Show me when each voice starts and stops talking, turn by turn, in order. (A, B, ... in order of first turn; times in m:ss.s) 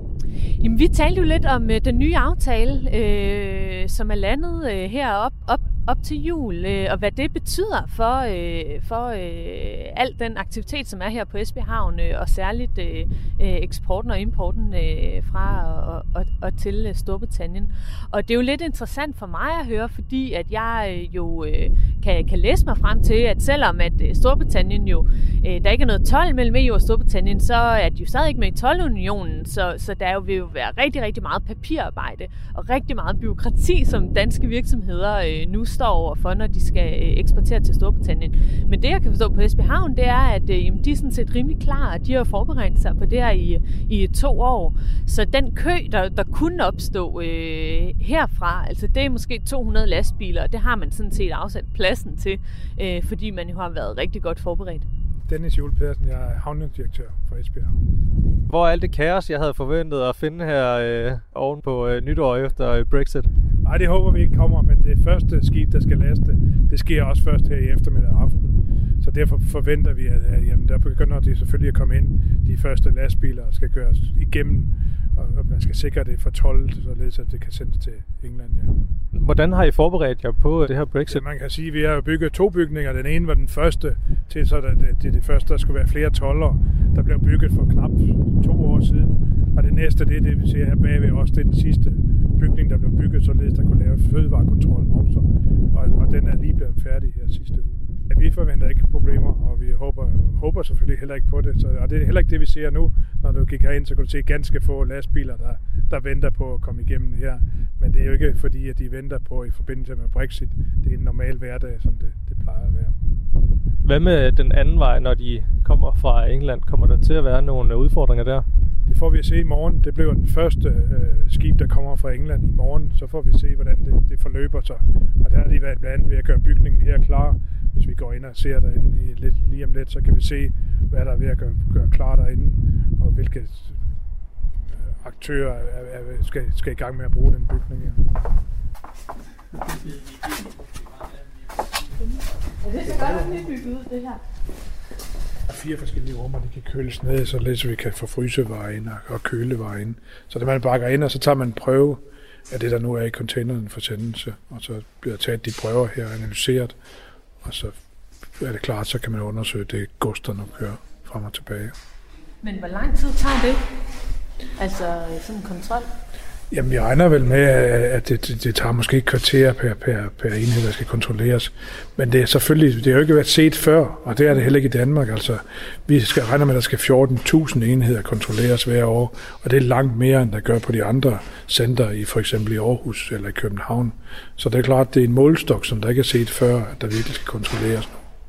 0:00.6-0:54.9 A
0:55.3-0:57.9 B
0:58.5-1:03.3 C
1:03.6-1:18.8 B
1:19.1-1:21.2 C
1:21.1-1:53.0 B
1:53.8-1:58.5 C
1:58.9-2:13.7 B
2:15.0-2:18.0 B
2:22.6-2:24.2 A
2:25.5-2:36.8 B
2:37.4-2:37.8 B
2:38.4-2:41.7 B
2:42.4-2:43.6 A
2:44.6-2:45.9 A
2:46.5-3:08.0 B